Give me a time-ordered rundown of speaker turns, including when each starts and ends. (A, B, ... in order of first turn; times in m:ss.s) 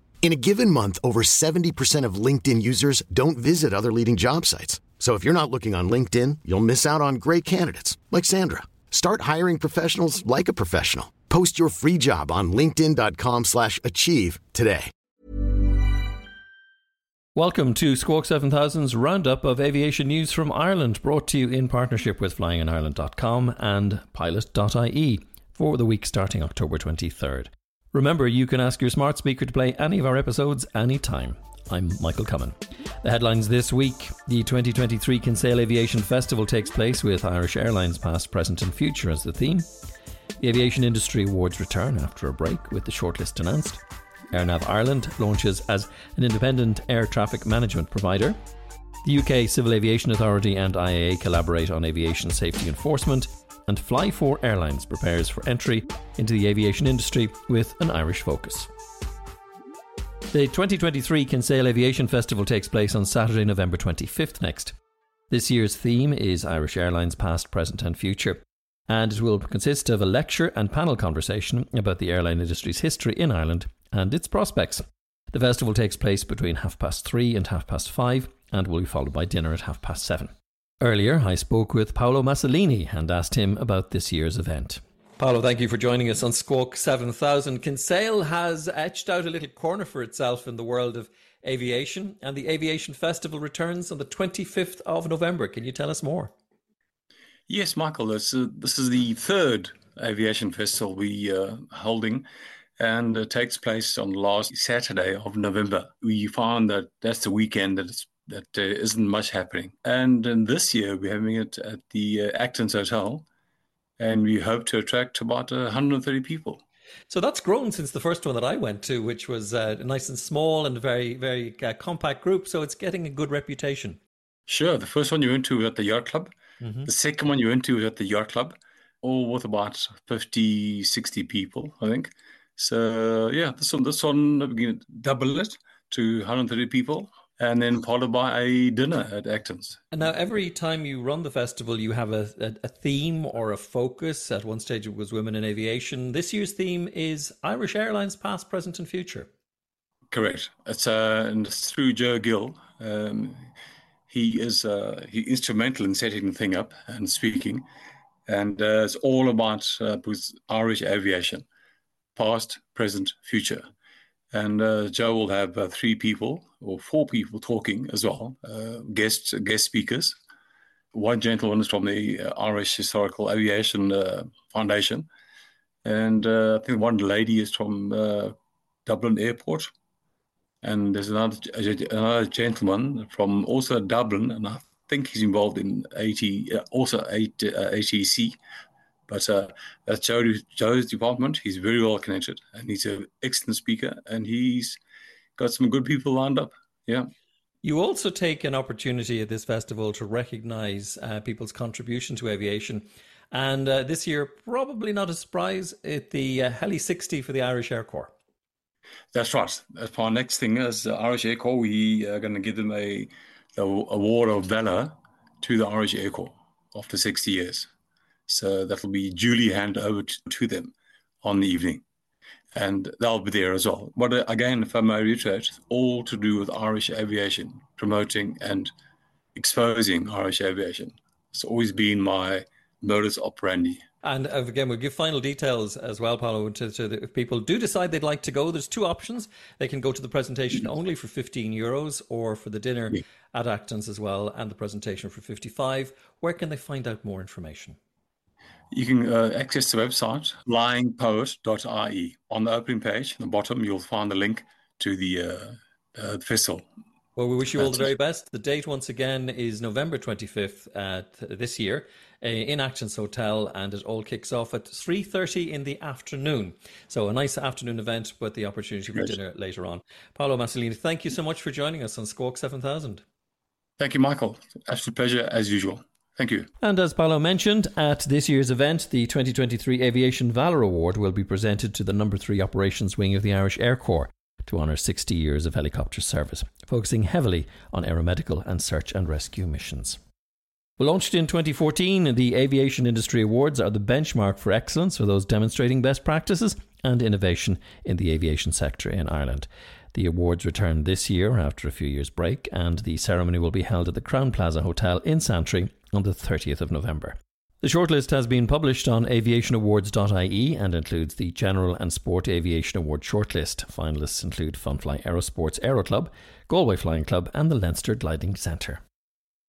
0:00.2-0:14.9 A
0:17.4-0:39.7 B
0:40.4-0:43.8 B
0:44.3-0:48.4 B
0:49.0-0:58.7 B
1:00.3-1:04.8 B
1:05.3-1:36.3 B
1:37.5-1:42.3 C
1:42.8-1:53.3 C
1:54.0-1:56.6 C
1:57.1-2:04.0 B
2:04.5-2:06.3 C
2:06.6-2:06.9 B
2:06.8-2:19.8 C
2:19.9-2:29.3 B
2:30.1-2:33.4 C
2:34.1-2:37.7 C
2:38.3-2:41.5 C
2:42.2-2:43.7 C
2:44.3-2:50.2 C
2:50.9-2:55.1 C
2:55.8-2:59.7 C
3:00.6-3:08.4 C
3:09.1-3:14.8 C
3:15.4-3:17.1 C
3:17.6-3:28.1 B
3:29.1-3:37.7 C
3:38.3-3:41.8 C
3:42.5-3:48.7 C
3:49.4-3:53.8 C
3:54.0-4:07.8 B
4:08.7-4:16.7 C
4:17.2-4:33.0 B
4:33.8-4:36.5 C
4:36.6-4:50.0 B
4:50.8-5:18.8 B